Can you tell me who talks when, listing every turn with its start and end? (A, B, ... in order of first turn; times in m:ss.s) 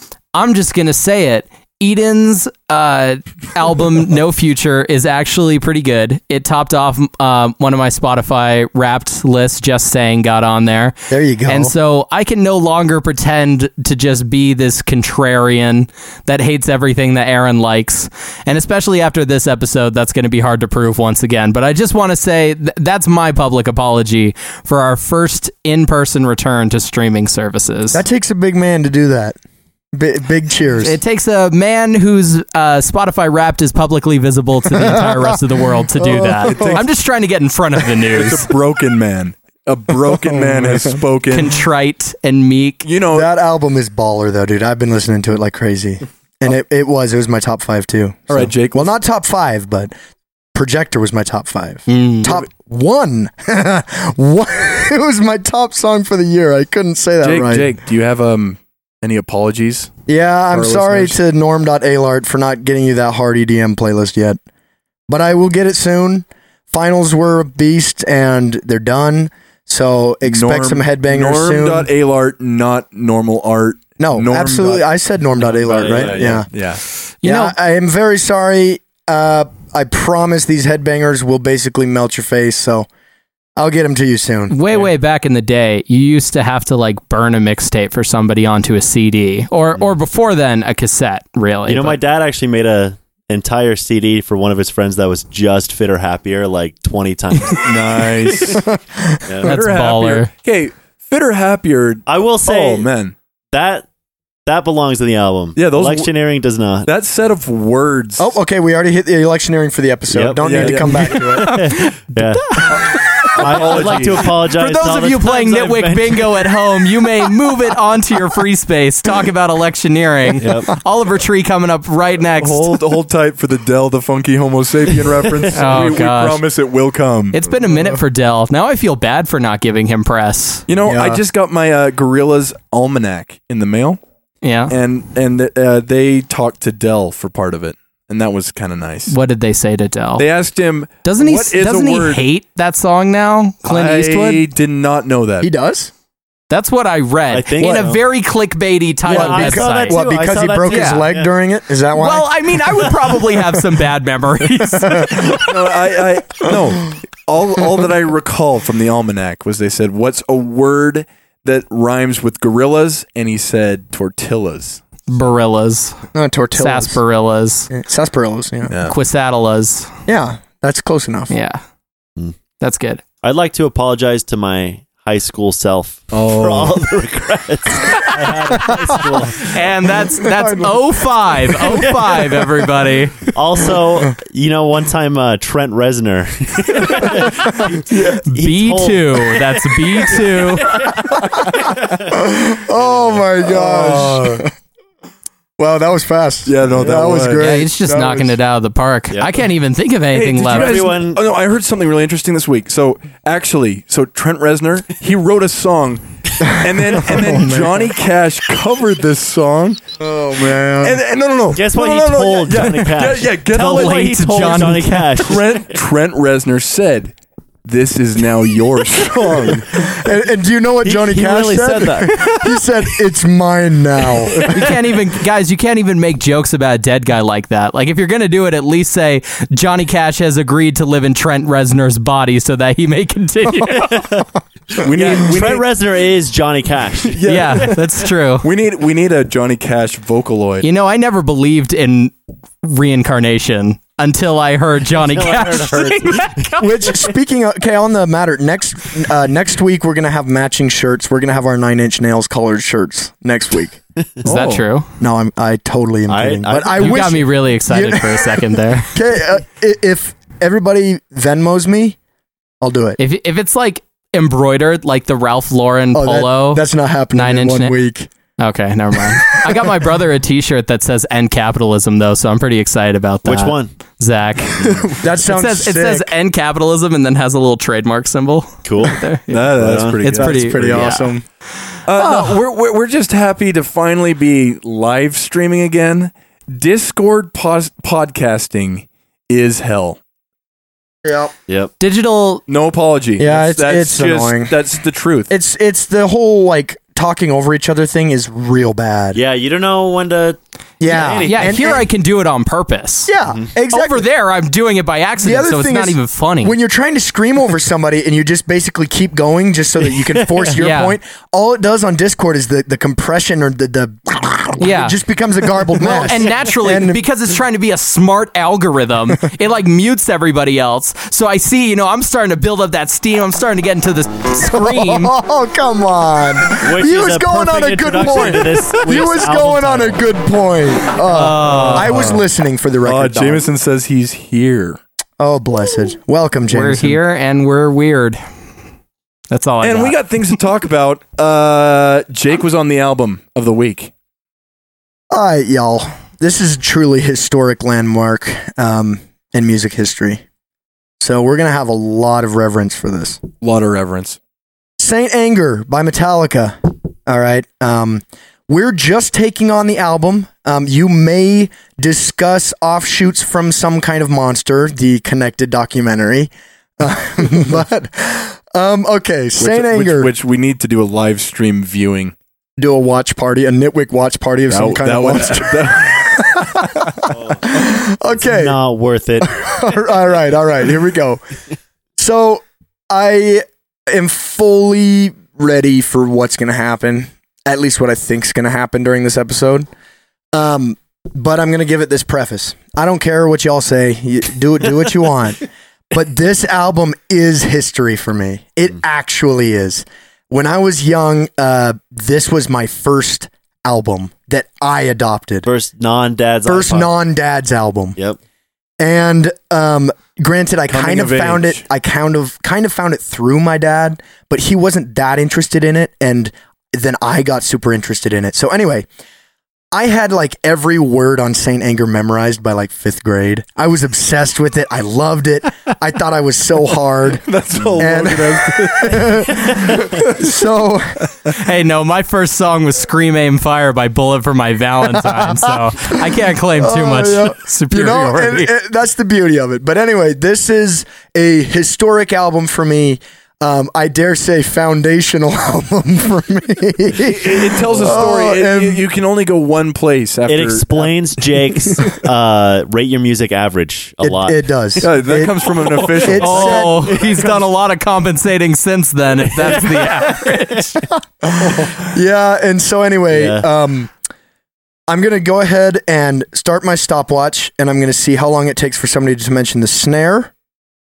0:00.3-0:11.0 A
0:11.1-0:11.7 B
0:11.5-0:28.0 A
0:27.9-0:29.4 B
0:29.9-0:31.0 B
0:30.8-0:38.5 A
0:34.7-0:36.8 B
0:36.4-0:36.9 C
0:38.1-0:41.5 C
0:40.1-0:41.0 B
0:41.3-0:42.8 A
0:42.8-0:43.3 C
0:43.1-0:49.9 B
0:48.3-0:49.0 C
0:50.6-0:57.7 B
0:51.9-0:52.4 A
0:57.2-0:59.9 C
1:00.1-1:04.4 B
1:00.5-1:01.2 C
1:05.1-1:11.9 B
1:10.2-1:14.9 C
1:14.0-1:16.5 B
1:15.4-1:16.8 C
1:15.7-1:16.3 D
1:17.2-1:17.6 A
1:17.2-1:22.9 B
1:23.6-1:24.6 B
1:24.5-1:32.0 A
1:31.7-1:37.7 D
1:37.6-1:38.7 C
1:38.4-1:38.6 D
1:38.7-1:39.2 B
1:39.4-1:40.3 A
1:39.4-1:43.2 C
1:42.1-1:42.9 D
1:43.5-1:43.9 D
1:44.5-1:46.9 D
1:45.6-1:46.1 C
1:46.8-1:48.3 C
1:48.2-1:51.7 B
1:50.1-1:52.7 D
1:50.4-1:51.3 C
1:51.4-1:53.4 A
1:53.2-1:56.5 D
1:53.4-1:54.2 C
1:54.5-2:02.8 A
2:00.4-2:00.7 D
2:02.4-2:07.4 C
2:05.5-2:06.4 A
2:07.3-2:10.6 A
2:10.7-2:14.0 C
2:10.8-2:11.2 B
2:14.4-2:14.7 A
2:14.7-2:19.2 C
2:19.1-2:20.3 A
2:20.2-2:22.3 C
2:21.0-2:24.4 A
2:23.7-2:25.5 C
2:25.4-2:25.9 B
2:26.5-2:30.0 A
2:27.3-2:28.0 D
2:29.0-2:31.3 D
2:29.1-2:32.6 B
2:30.7-2:31.0 A
2:32.0-2:35.5 A
2:34.6-2:35.5 B
2:35.4-2:44.8 C
2:45.1-2:46.0 A
2:46.2-2:47.0 B
2:46.6-2:47.7 A
2:47.7-2:48.8 B
2:48.7-2:48.9 C
2:48.9-2:49.9 A
2:50.1-2:51.3 B
2:51.3-2:51.6 A
2:52.6-2:53.0 A
2:53.2-2:59.6 D
2:56.1-2:56.8 C
2:58.5-2:59.3 B
2:59.4-3:03.3 A
3:00.1-3:02.6 B
3:03.3-3:12.2 D
3:06.9-3:07.3 B
3:07.9-3:08.2 B
3:08.1-3:10.8 A
3:11.2-3:11.4 B
3:12.1-3:14.5 B
3:12.8-3:13.2 D
3:13.4-3:14.4 C
3:15.6-3:18.3 B
3:16.5-3:17.6 C
3:17.4-3:20.8 A
3:19.1-3:19.4 D
3:20.1-3:29.8 C
3:20.4-3:21.2 D
3:26.4-3:27.9 B
3:30.0-3:31.0 B
3:30.4-3:34.5 C
3:31.6-3:35.7 D
3:33.6-3:35.2 A
3:35.2-3:37.1 C
3:37.6-3:39.7 C
3:39.1-3:44.8 B
3:40.8-3:42.4 D
3:44.4-3:54.2 A
3:53.7-3:57.7 D
3:54.8-3:55.6 C
3:57.1-3:57.8 C
3:57.2-3:58.5 A
3:58.4-4:00.7 C
4:00.6-4:06.7 A
4:05.0-4:06.6 D
4:06.6-4:13.8 B
4:14.2-4:14.6 C
4:14.2-4:14.9 A
4:15.0-4:18.4 B
4:16.1-4:17.2 D
4:16.8-4:18.9 A
4:18.9-4:22.0 B
4:22.6-4:23.0 B
4:23.0-4:26.6 A
4:25.9-4:28.1 B
4:27.1-4:27.8 A
4:28.4-4:41.1 A
4:29.1-4:29.7 B
4:33.2-4:33.7 D
4:34.9-4:36.1 B
4:38.6-4:39.0 D
4:39.3-4:41.0 C
4:39.6-4:40.0 D
4:40.0-4:41.2 B
4:41.9-4:50.0 C
4:42.0-4:42.4 A
4:51.0-4:51.3 B
4:51.8-4:52.4 A
4:52.5-4:55.3 C
4:53.2-4:54.6 B
4:55.3-4:59.2 B
4:59.1-5:01.8 D
5:00.8-5:01.8 B
5:01.2-5:03.1 A
5:03.1-5:04.0 B
5:03.7-5:06.6 A
5:05.2-5:17.0 B
5:10.0-5:10.6 D
5:10.5-5:11.0 A
5:14.6-5:15.0 A
5:15.8-5:25.1 A
5:24.4-5:33.4 B
5:26.6-5:30.0 D
5:31.1-5:32.3 C
5:31.5-5:32.0 A
5:32.8-5:34.8 C
5:35.2-5:37.0 B
5:36.5-5:38.2 A
5:39.3-5:40.0 A
5:39.6-5:43.9 C
5:45.1-5:50.2 B
5:51.0-5:53.2 B
5:53.4-5:54.2 C
5:54.8-6:10.1 B
6:09.4-6:12.1 C
6:12.6-6:18.6 B
6:14.5-6:16.1 C
6:17.1-6:17.6 D
6:18.1-6:19.8 D
6:19.2-6:21.2 B
6:22.0-6:29.7 B
6:30.3-6:45.5 B
6:45.4-6:46.9 D
6:46.5-6:48.0 B
6:48.8-6:58.9 B
6:50.7-6:51.6 C
6:59.7-7:07.3 B
7:07.2-7:10.2 C
7:07.8-7:11.0 B
7:11.4-7:18.5 A
7:14.8-7:28.8 B
7:27.0-7:30.9 C
7:30.3-7:34.4 D
7:34.0-7:35.5 B
7:34.8-7:37.1 C
7:35.8-7:40.9 A
7:36.0-7:37.0 B
7:36.6-7:37.4 D
7:39.3-7:40.7 D
7:41.2-7:43.9 B
7:43.1-7:43.4 D
7:44.9-7:50.3 B